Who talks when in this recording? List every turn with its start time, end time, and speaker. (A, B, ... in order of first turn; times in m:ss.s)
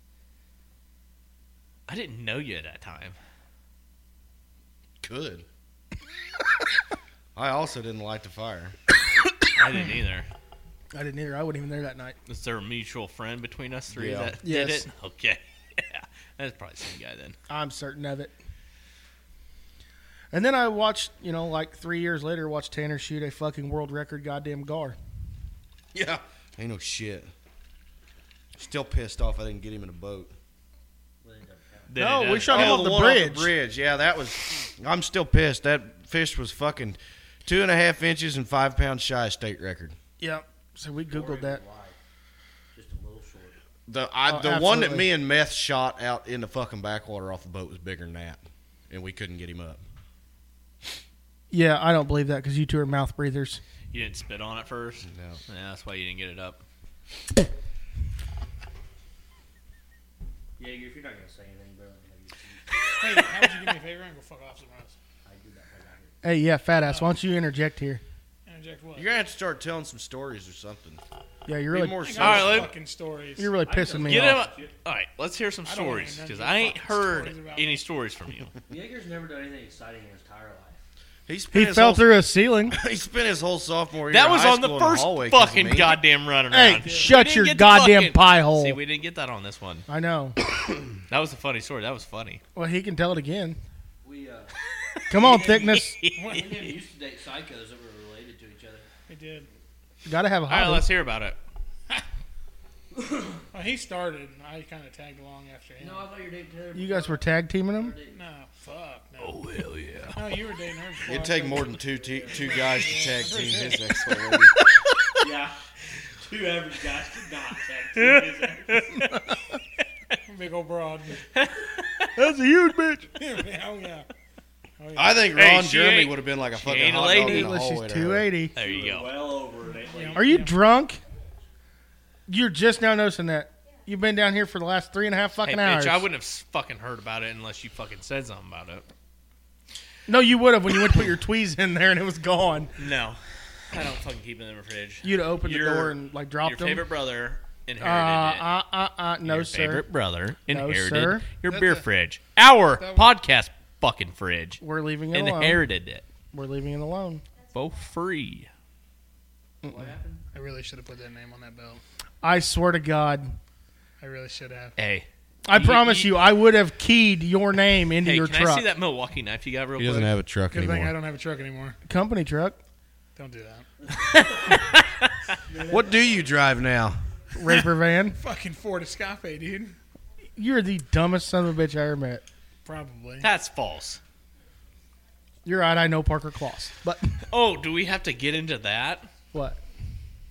0:01.9-0:03.2 A
0:05.0-0:05.5 B
0:07.4-0:08.8 B
0:09.6-0:10.3 A
0:10.9-0:12.2 C
0:12.3-0:17.4 A
0:13.9-0:14.4 B
0:14.4-0:14.9 C
0:17.5-0:18.3 C
0:20.3-0:25.0 C
0:25.9-0:27.3 B
0:28.6-0:30.3 B
0:31.2-0:32.0 D
0:31.9-0:33.0 A
0:32.0-0:33.5 C
0:32.5-0:40.0 B
0:40.2-0:41.6 C
0:41.1-0:42.0 D
0:42.8-0:43.6 D
0:43.9-0:49.8 B
0:44.3-0:45.1 C
0:51.5-0:53.6 C
0:53.9-0:56.6 A
0:55.1-0:55.4 B
1:00.6-1:02.7 D
1:03.0-1:05.0 E
1:05.2-1:06.1 D
1:06.2-1:08.0 C
1:06.9-1:07.2 E
1:08.5-1:09.1 E
1:09.0-1:11.0 B
1:11.5-1:12.6 C
1:11.7-1:12.7 B
1:12.0-1:13.6 E
1:12.2-1:12.8 A
1:13.4-1:14.4 C
1:13.6-1:14.7 D
1:14.0-1:18.5 A
1:15.6-1:17.8 E
1:18.7-1:20.8 D
1:21.3-1:26.0 B
1:21.5-1:22.8 C
1:24.1-1:29.9 A
1:26.5-1:28.8 C
1:26.8-1:27.2 E
1:29.9-1:30.4 C
1:31.0-1:32.4 A
1:32.6-1:33.6 C
1:34.0-1:34.6 D
1:34.9-1:36.7 A
1:35.1-1:36.0 C
1:35.2-1:38.9 D
1:36.2-1:36.7 E
1:39.1-1:39.5 E
1:40.0-1:40.9 C
1:40.5-1:41.4 A
1:42.9-1:43.4 D
1:43.5-1:46.1 E
1:45.8-1:48.2 D
1:46.8-1:48.0 C
1:48.1-1:49.4 E
1:49.2-1:50.2 A
1:50.1-1:51.8 E
1:51.1-1:54.5 B
1:51.6-1:53.3 D
1:52.3-1:53.8 E
1:54.1-1:55.2 A
1:55.2-1:55.6 D
1:56.2-1:59.0 D
1:58.7-1:59.2 A
2:00.3-2:01.3 E
2:01.3-2:02.1 A
2:02.2-2:03.2 C
2:03.2-2:04.1 E
2:04.8-2:05.3 E
2:05.0-2:08.3 B
2:05.3-2:07.5 A
2:07.2-2:08.5 C
2:08.5-2:09.1 A
2:08.6-2:10.4 D
2:09.8-2:10.6 E
2:10.2-2:11.0 C
2:12.3-2:16.0 C
2:15.4-2:18.9 A
2:20.1-2:22.7 C
2:22.8-2:23.2 A
2:23.7-2:28.5 A
2:25.0-2:26.9 C
2:27.8-2:29.9 C
2:29.2-2:36.0 A
2:30.5-2:31.3 C
2:31.5-2:31.8 E
2:32.8-2:33.1 E
2:34.6-2:35.6 C
2:36.3-2:37.2 C
2:37.5-2:38.5 A
2:39.6-2:40.2 D
2:40.3-2:41.8 E
2:42.2-2:43.4 C
2:44.0-2:44.8 E
2:44.8-2:46.2 A
2:45.5-2:48.7 C
2:48.0-2:50.1 A
2:49.8-2:50.9 B
2:50.5-2:51.8 E
2:51.8-2:52.6 C
2:53.2-2:53.7 E
2:53.9-2:54.7 D
2:54.1-2:55.1 A
2:55.4-2:56.5 D
2:55.7-2:57.0 B
2:57.3-2:58.2 C
2:57.5-2:59.8 E
3:00.4-3:02.2 C
3:02.6-3:03.3 E
3:03.2-3:04.0 A
3:05.4-3:07.2 C
3:07.3-3:09.1 A
3:09.3-3:09.6 C